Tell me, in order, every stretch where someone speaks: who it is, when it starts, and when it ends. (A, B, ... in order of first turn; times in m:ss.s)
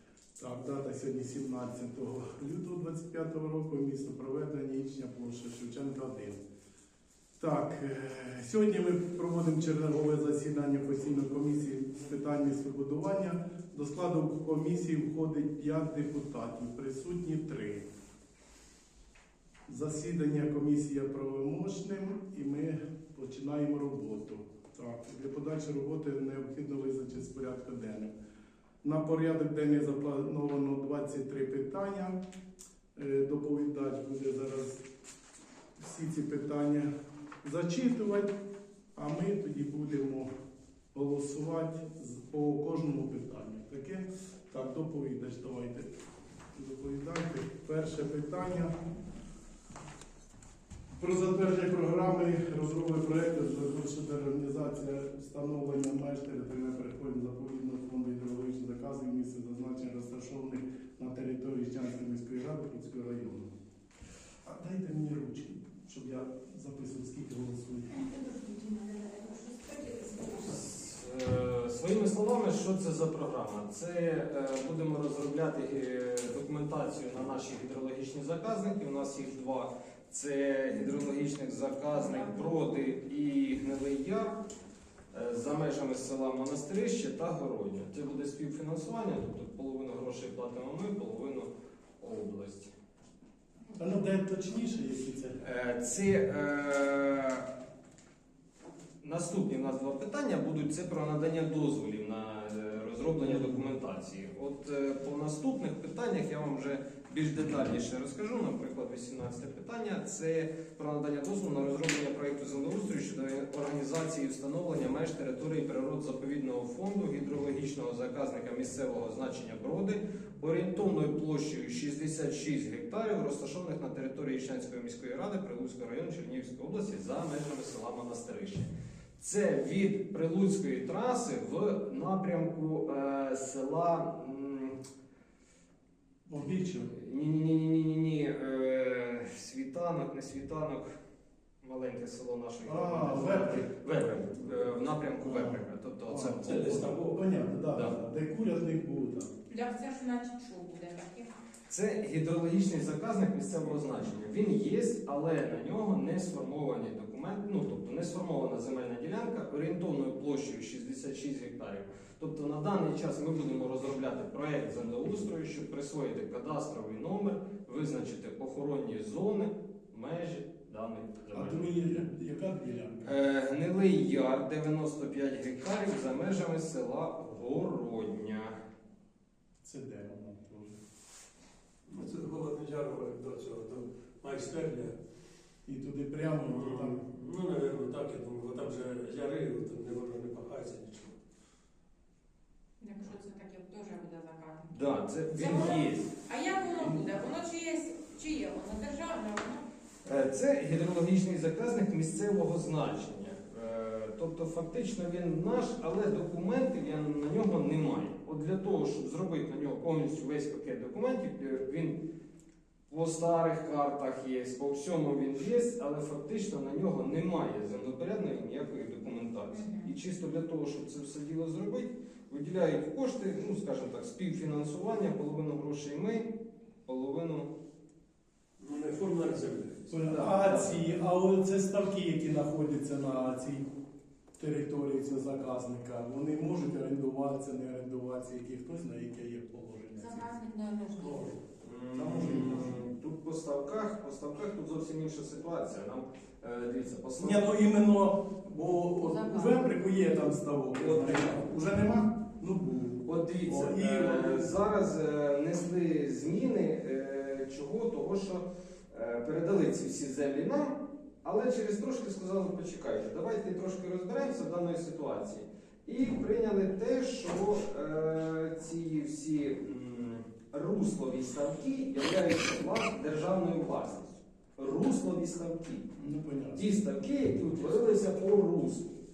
0:00.4-0:06.4 A
0:07.4-0:17.9 A
0:19.7-0:28.1 A
0:28.8-0:32.2 A
0:32.9-0:34.8 A
0:35.8-0:36.9 A
0:37.4-0:38.4 A
0:38.9-0:40.3 A
0:40.9-0:45.9 A
0:46.5-0:48.7 A
0:50.9-1:03.5 A
1:04.4-1:08.0 A
1:08.0-1:10.6 B
1:10.4-1:24.4 C
1:21.9-1:22.5 B
1:25.1-1:32.7 C
1:33.8-1:35.4 A
1:35.4-1:37.5 C
1:39.0-2:14.8 C
1:43.2-1:43.6 A
2:16.3-2:16.9 A
2:16.8-2:20.8 C
2:21.6-2:26.8 C
2:22.6-2:23.7 A
2:25.2-2:29.3 A
2:26.4-2:27.2 D
2:29.5-2:31.3 B
2:31.7-2:52.0 C
2:51.3-2:53.1 A
2:53.0-2:58.6 C
2:59.6-3:00.7 A
3:01.9-3:05.0 D
3:05.6-3:07.0 A
3:06.4-3:11.2 D
3:12.8-3:14.7 B
3:14.7-3:16.1 C
3:15.3-3:19.6 B
3:20.0-3:32.0 C
3:32.9-3:46.3 C
3:39.5-3:39.9 B
3:46.8-3:47.5 C
3:48.6-3:50.3 D
3:49.9-3:53.6 A
3:50.2-3:50.8 C
3:54.4-4:00.3 A
4:00.0-4:01.3 B
4:01.0-4:01.3 D
4:01.6-4:07.5 C
4:01.9-4:02.8 A
4:07.2-4:14.5 A
4:09.0-4:09.6 B
4:10.7-4:11.4 C
4:13.0-4:35.8 C
4:35.9-4:36.6 A
4:36.5-4:38.9 C